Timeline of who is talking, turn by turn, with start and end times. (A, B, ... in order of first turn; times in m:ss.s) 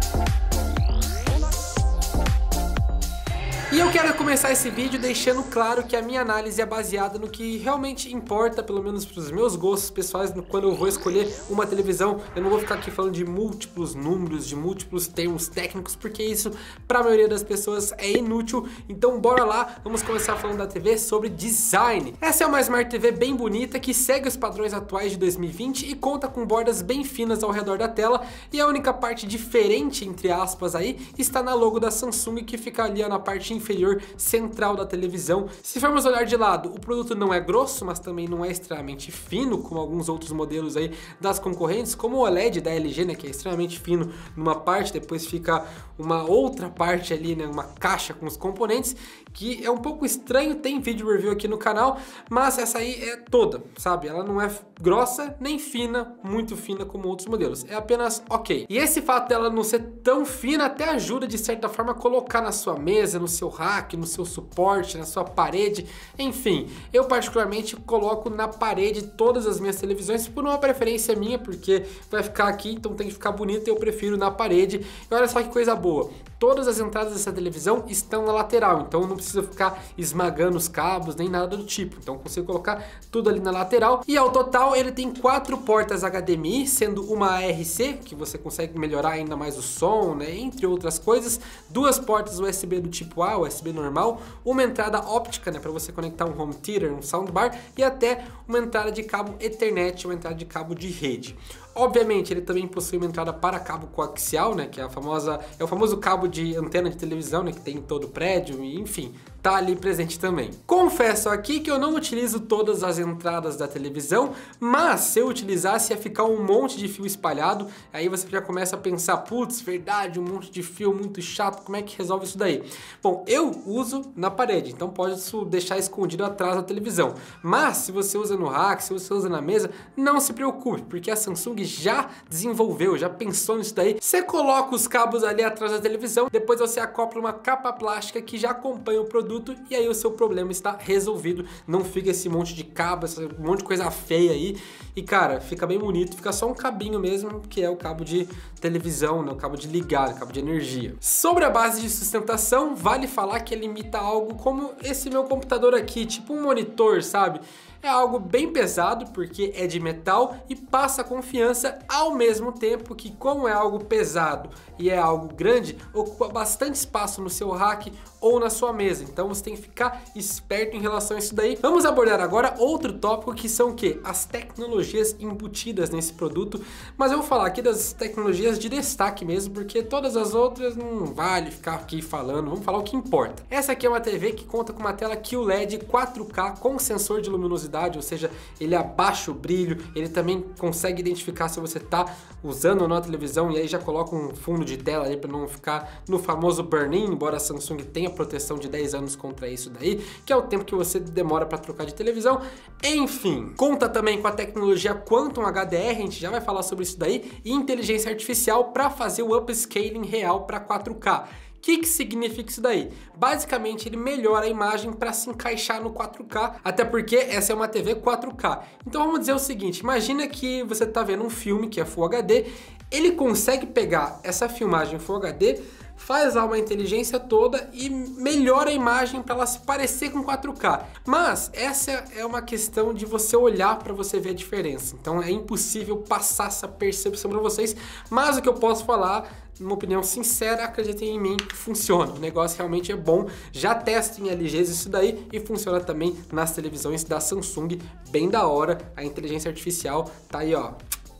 0:03.7-4:10.8 A